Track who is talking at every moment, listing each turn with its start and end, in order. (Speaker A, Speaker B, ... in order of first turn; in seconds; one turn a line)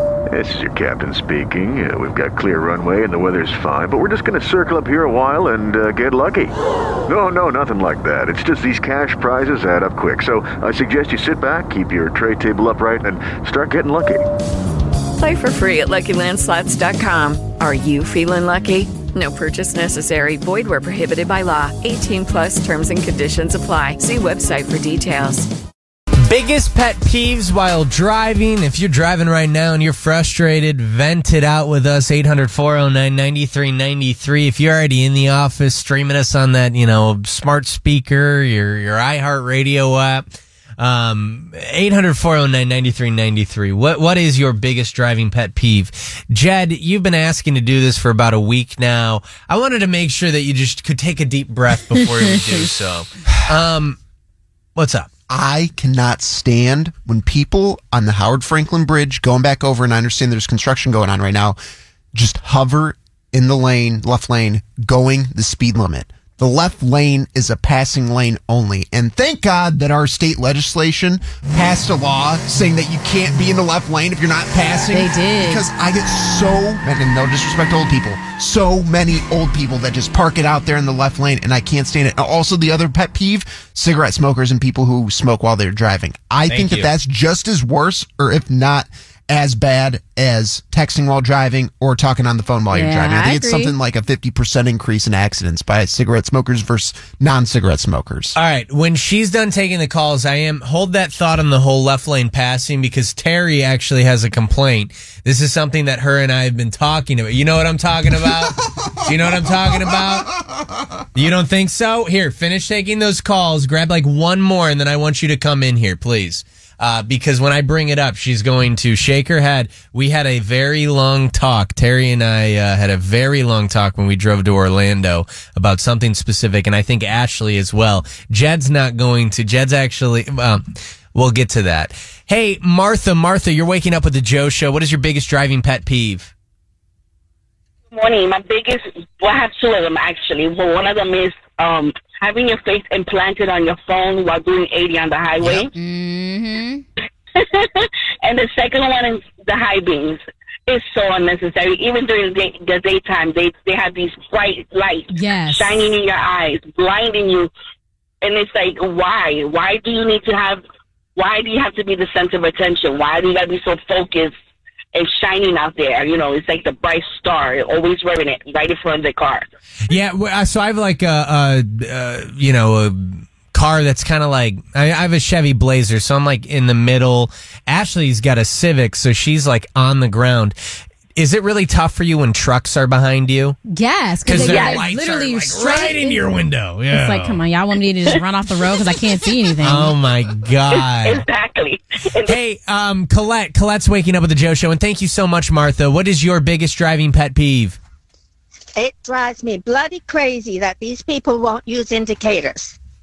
Speaker A: 0.3-6.5
Speaker A: 7.1-14.2
Speaker B: 15.2-25.5
Speaker C: 26.2-40.2
Speaker C: 40.8-54.0
Speaker C: 54.8-55.1
Speaker D: 55.3-61.6
Speaker D: 62.1-98.4
Speaker E: 74.9-75.7
Speaker C: 86.5-86.9
Speaker E: 92.7-93.7
Speaker C: 98.3-110.3
Speaker D: 109.3-110.3
Speaker C: 111.2-136.3
Speaker F: 137.9-145.7
Speaker E: 145.7-146.8
Speaker F: 147.3-157.5
Speaker E: 155.1-155.8
Speaker F: 158.2-160.6
Speaker F: 161.2-164.3
Speaker F: 164.9-169.5
Speaker C: 169.9-180.6
Speaker C: 181.2-183.6
Speaker E: 183.7-186.3
Speaker C: 184.2-187.4
Speaker E: 186.9-190.0
Speaker C: 189.6-191.3
Speaker F: 190.7-192.4
Speaker C: 192.2-197.8
Speaker G: 198.8-202.8